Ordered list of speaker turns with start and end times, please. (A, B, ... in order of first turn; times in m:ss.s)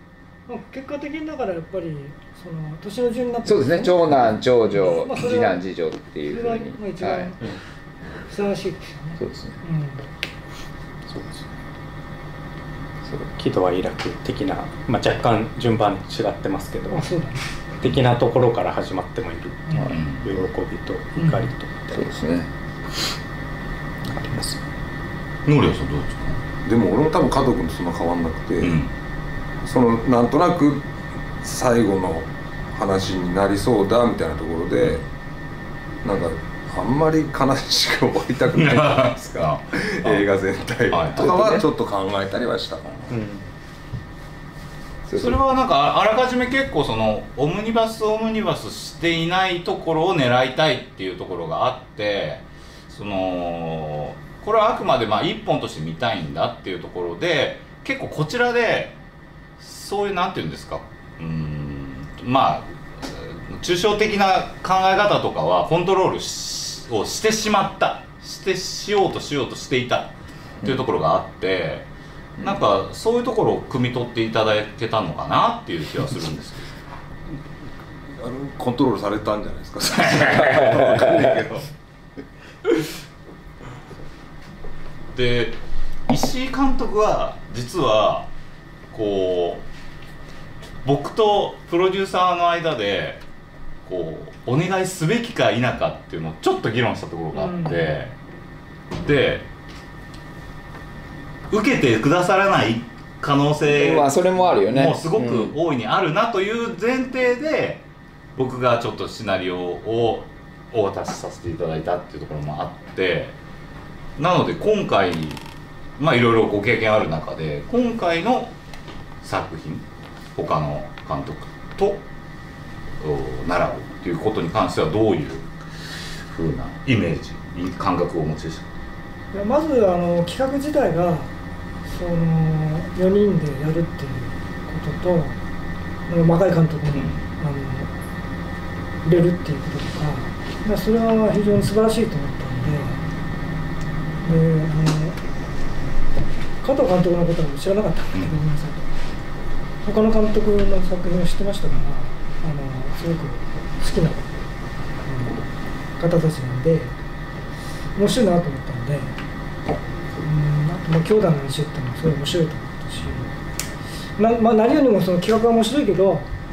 0:00.5-0:04.0 A
0:03.4-0:07.3 B
0:04.8-0:05.6 A
0:06.3-0:07.4 A
0:08.3-0:10.0 A
0:09.2-0:09.6 B
0:11.1-0:11.5 C
0:13.3-0:17.1 C
0:16.9-0:17.4 A
0:17.8-0:22.1 C
0:19.9-0:20.3 D
0:21.2-0:21.5 A
0:21.9-0:22.5 B
0:24.1-0:24.6 C
0:25.4-0:26.4 D
0:26.6-0:28.8 E
0:28.6-0:28.9 D
0:29.6-0:30.9 E
0:31.4-0:35.0 E
0:36.0-0:39.1 E
0:38.5-0:40.3 D
0:39.7-0:42.9 E
0:40.9-0:41.5 D
0:41.2-0:41.6 B
0:42.8-0:43.1 D
0:43.1-0:43.4 C
0:45.1-0:45.4 B
0:45.1-0:59.0 D
0:59.6-1:11.9 D
1:12.4-1:16.7 D
1:18.2-1:21.7 E
1:19.9-1:20.9 D
1:20.4-1:21.3 B
1:25.1-1:25.6 D
1:26.1-1:28.3 D
1:28.9-1:29.6 D
1:30.8-1:33.2 D
1:33.8-1:38.1 D
1:37.3-1:38.0 A
1:39.0-1:39.5 D
1:41.5-1:47.8 D
1:43.7-1:45.5 B
1:48.4-1:53.3 D
1:54.2-1:55.4 D
1:56.0-1:58.5 D
1:59.2-2:02.0 D
2:03.0-2:05.5 D
2:06.2-2:08.7 D
2:09.3-2:11.3 A
2:11.8-2:15.4 A
2:16.1-2:17.9 A
2:16.9-2:17.2 D
2:19.0-2:23.0 A
2:24.2-2:25.2 A
2:26.6-2:28.8 A
2:29.8-2:34.2 A
2:35.0-2:36.9 A
2:38.0-2:39.1 A
2:40.2-2:43.3 A
2:44.2-2:46.3 A